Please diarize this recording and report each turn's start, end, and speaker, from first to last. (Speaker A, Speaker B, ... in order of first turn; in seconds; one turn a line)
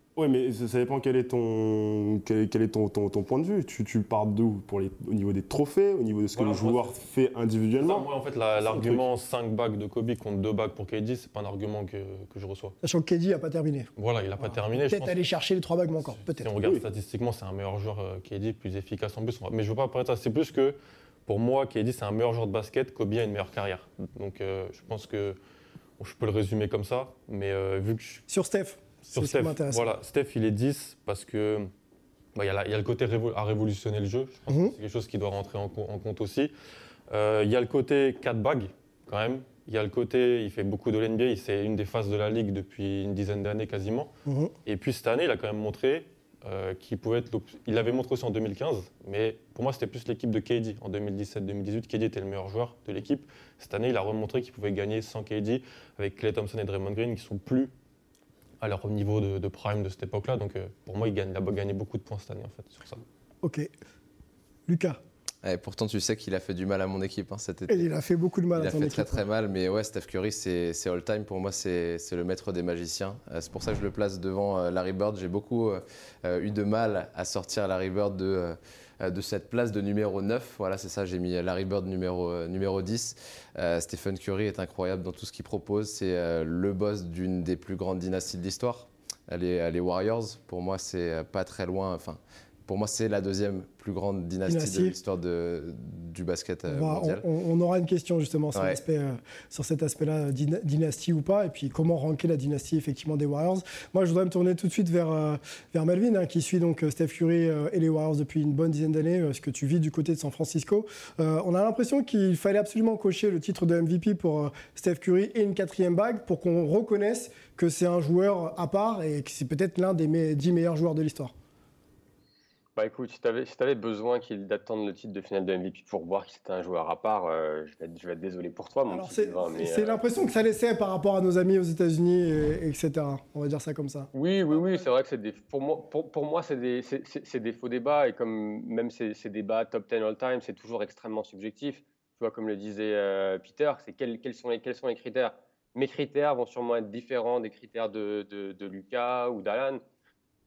Speaker A: 0.2-8.1
Speaker B: 6.3-6.9
Speaker B: 7.8-12.8
Speaker A: 8.6-9.0
Speaker C: 12.8-13.9
Speaker B: 14.0-15.2
Speaker C: 14.5-16.5
Speaker B: 16.4-25.4
Speaker B: 26.0-28.2
Speaker C: 28.3-29.9
Speaker B: 29.1-31.7
Speaker B: 32.4-36.5
Speaker B: 37.1-44.1
Speaker C: 44.3-44.5
Speaker B: 44.7-57.7
Speaker B: 58.6-63.0
Speaker C: 63.4-63.7
Speaker C: 64.7-65.0
Speaker D: 65.4-67.9
Speaker C: 67.7-69.2
Speaker D: 68.5-97.3
Speaker C: 94.5-95.0
Speaker C: 96.7-121.3
Speaker D: 98.5-98.8
Speaker E: 122.8-130.0
Speaker C: 128.9-134.1
Speaker E: 134.1-149.8